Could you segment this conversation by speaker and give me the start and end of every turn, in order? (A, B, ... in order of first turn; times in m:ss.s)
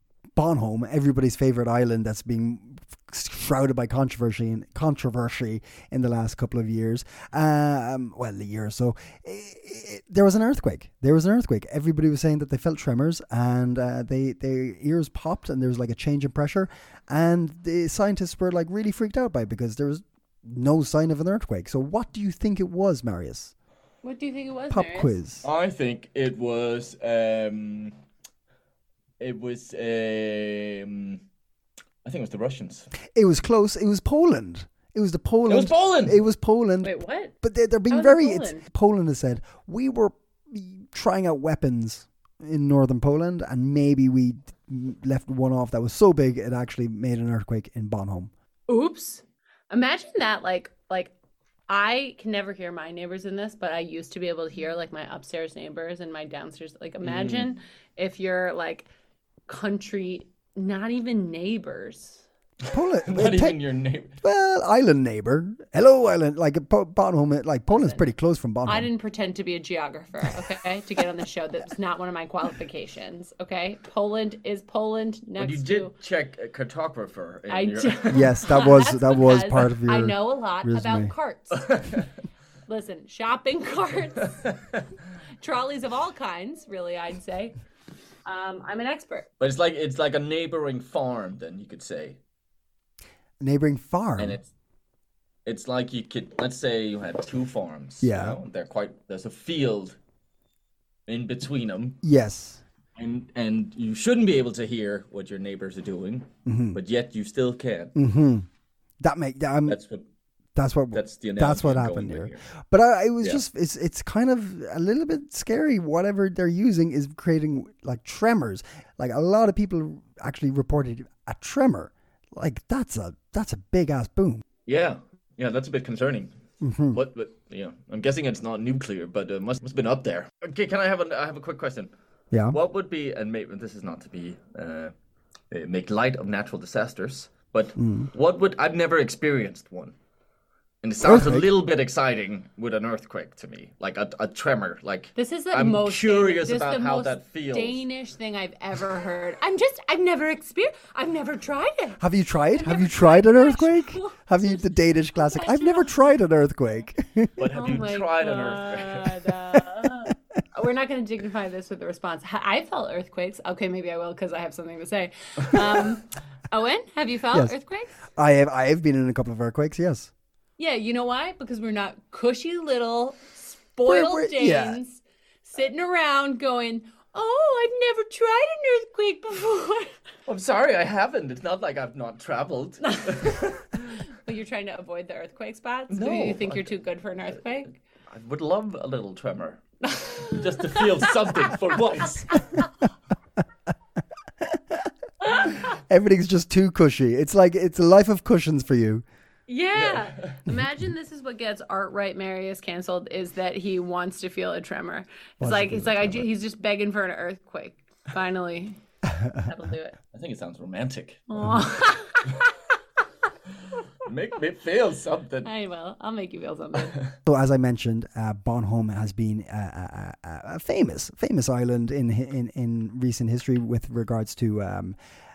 0:00.4-0:23.5 A
0:24.0-0:25.2 B
0:24.7-0:25.4 A
0:25.4-0:27.9 C
0:29.2-0:31.2 C
0:32.0-0:32.9 C
0:33.1-0:48.3 A
0:35.5-0:36.2 C
0:36.8-0:37.3 B
0:37.9-0:38.6 B
0:48.7-0:51.1 B
0:51.7-0:58.9 B
0:57.0-0:57.5 C
0:59.5-1:02.2 B
1:02.7-1:03.6 A
1:03.0-1:04.2 C
1:04.2-1:08.9 A
1:07.7-1:08.1 B
1:08.6-1:15.9 B
1:15.4-1:18.3 C
1:17.5-1:21.8 B
1:18.1-1:21.1 A
1:21.5-1:22.1 C
1:22.7-1:24.4 B
1:24.2-1:24.9 C
1:25.4-1:27.5 B
1:28.2-1:29.3 B
1:29.4-1:32.2 C
1:33.4-1:34.4 A
1:34.2-1:34.5 C
1:35.4-1:40.0 C
1:38.0-1:38.4 A
1:41.1-1:42.0 C
1:42.0-1:42.6 A
1:43.0-1:47.9 C
1:46.4-1:46.8 A
1:47.9-1:48.5 A
1:49.0-1:49.8 A
1:49.7-1:50.0 C
1:50.6-2:04.4 A
1:50.9-1:52.4 C
2:04.6-2:06.3 C
2:06.6-2:07.0 A
2:06.9-2:11.9 C
2:12.3-2:12.6 A
2:12.5-2:14.9 C
2:15.5-2:19.9 C
2:17.8-2:18.1 A
2:20.8-2:27.8 C
2:21.0-2:21.4 A
2:25.2-2:36.0 B
2:32.0-2:37.3 A
2:37.4-2:39.3 C
2:37.4-2:47.9 B
2:48.2-2:50.1 A
2:50.6-2:59.9 B
2:53.9-2:54.8 A
3:00.2-3:04.0 C
3:02.8-3:07.7 B
3:05.9-3:06.8 C
3:08.1-3:09.6 C
3:09.8-3:11.8 B
3:10.2-3:12.6 C
3:12.3-3:12.7 B
3:14.4-3:14.8 A
3:15.2-3:15.7 B
3:15.5-3:19.0 A
3:19.5-3:28.8 B
3:19.7-3:20.4 C
3:25.4-3:26.3 A
3:29.1-3:29.5 A
3:29.4-3:30.0 B
3:30.1-3:31.3 C
3:31.3-3:32.6 B
3:34.0-3:35.5 C
3:35.4-3:37.0 B
3:37.2-3:45.0 A